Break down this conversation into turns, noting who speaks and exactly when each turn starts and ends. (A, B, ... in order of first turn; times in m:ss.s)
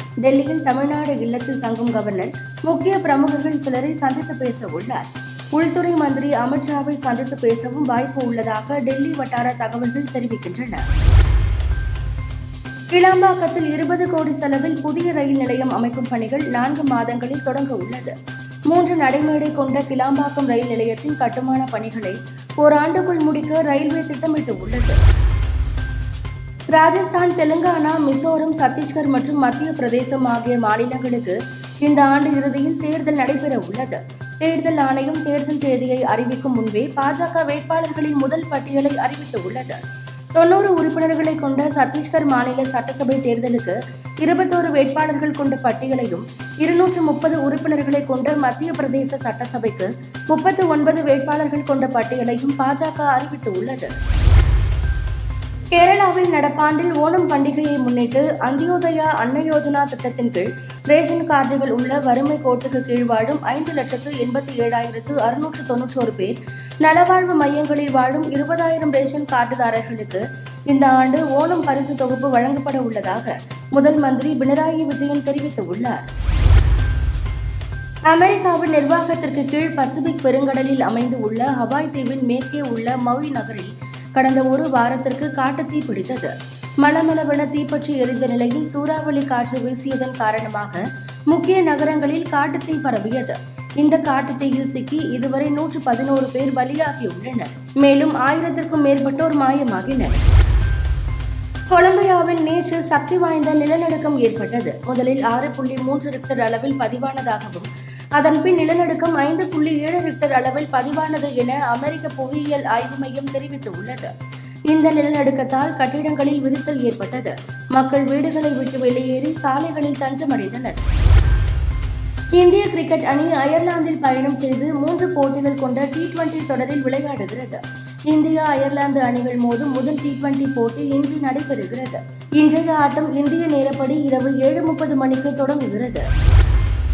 0:00.2-0:05.0 A
0:05.5-0:10.8 A
0:12.9-0:18.1 A
0:18.7-0:25.0 A
0:26.7-0:39.8 A
0:40.4-0:53.9 A
0:55.8-1:16.1 A
1:18.1-1:26.3 A
1:26.8-1:30.8 A
1:31.3-1:40.2 A
1:41.7-1:47.7 A
1:48.2-1:54.1 A
1:54.7-2:00.8 A
2:02.4-2:07.6 A
2:08.1-2:16.0 A